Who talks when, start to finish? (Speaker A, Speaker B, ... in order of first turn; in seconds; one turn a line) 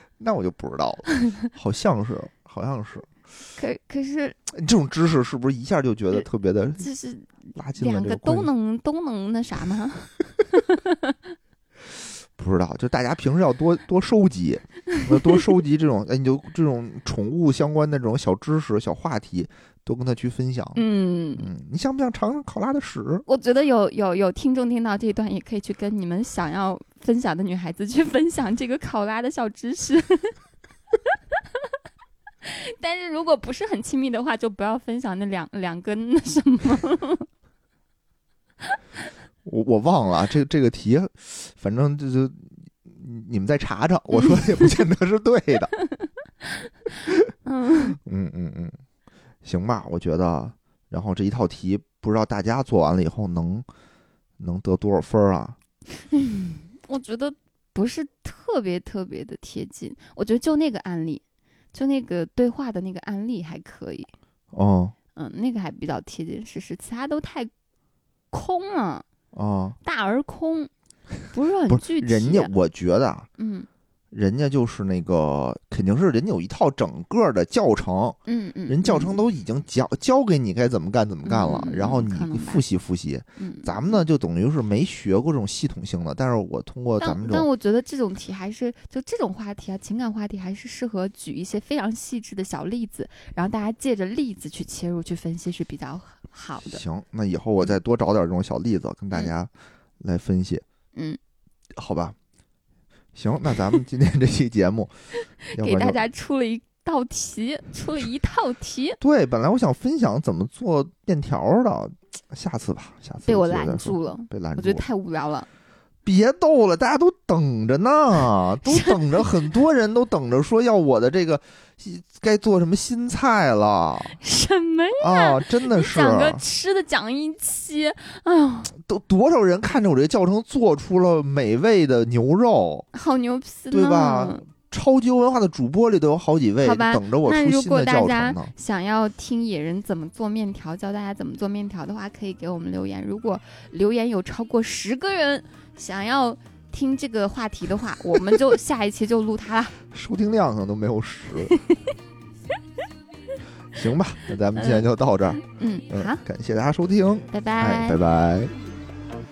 Speaker A: 0.2-3.1
Speaker B: 3.5-4.4
Speaker A: 4.5-6.9
Speaker B: 6.8-11.1
Speaker A: 7.5-8.5
Speaker A: 12.3-20.8
Speaker B: 20.7-21.5
Speaker A: 21.4-23.2
Speaker B: 23.2-30.3
Speaker B: 32.4-37.3
Speaker A: 39.4-45.7
Speaker B: 44.1-44.4
Speaker B: 47.4-48.0
Speaker A: 47.9-48.8
Speaker A: 49.4-53.6
Speaker A: 54.4-55.6
Speaker B: 56.1-61.2
Speaker B: 61.7-64.1
Speaker A: 64.5-65.0
Speaker B: 65.2-67.5
Speaker B: 68.3-69.0
Speaker A: 69.3-69.8
Speaker B: 69.8-70.7
Speaker B: 71.3-72.5
Speaker A: 71.7-73.3
Speaker B: 73.4-73.7
Speaker A: 74.1-87.5
Speaker B: 78.2-79.2
Speaker B: 81.2-82.6
Speaker B: 83.4-84.0
Speaker B: 87.0-96.8
Speaker A: 96.6-100.6
Speaker A: 101.8-102.2
Speaker A: 103.1-104.9
Speaker B: 105.5-109.0
Speaker A: 105.5-106.0
Speaker A: 109.0-114.8
Speaker B: 113.2-115.5
Speaker A: 116.0-124.2
Speaker B: 118.7-119.0
Speaker B: 124.2-128.7
Speaker A: 125.0-126.4
Speaker A: 128.7-132.8
Speaker B: 132.9-134.4
Speaker A: 133.7-138.5
Speaker B: 136.6-149.8
Speaker A: 149.9-151.6
Speaker B: 151.5-151.8
Speaker A: 153.7-158.5
Speaker B: 154.6-154.9
Speaker B: 155.5-156.2
Speaker B: 157.3-158.0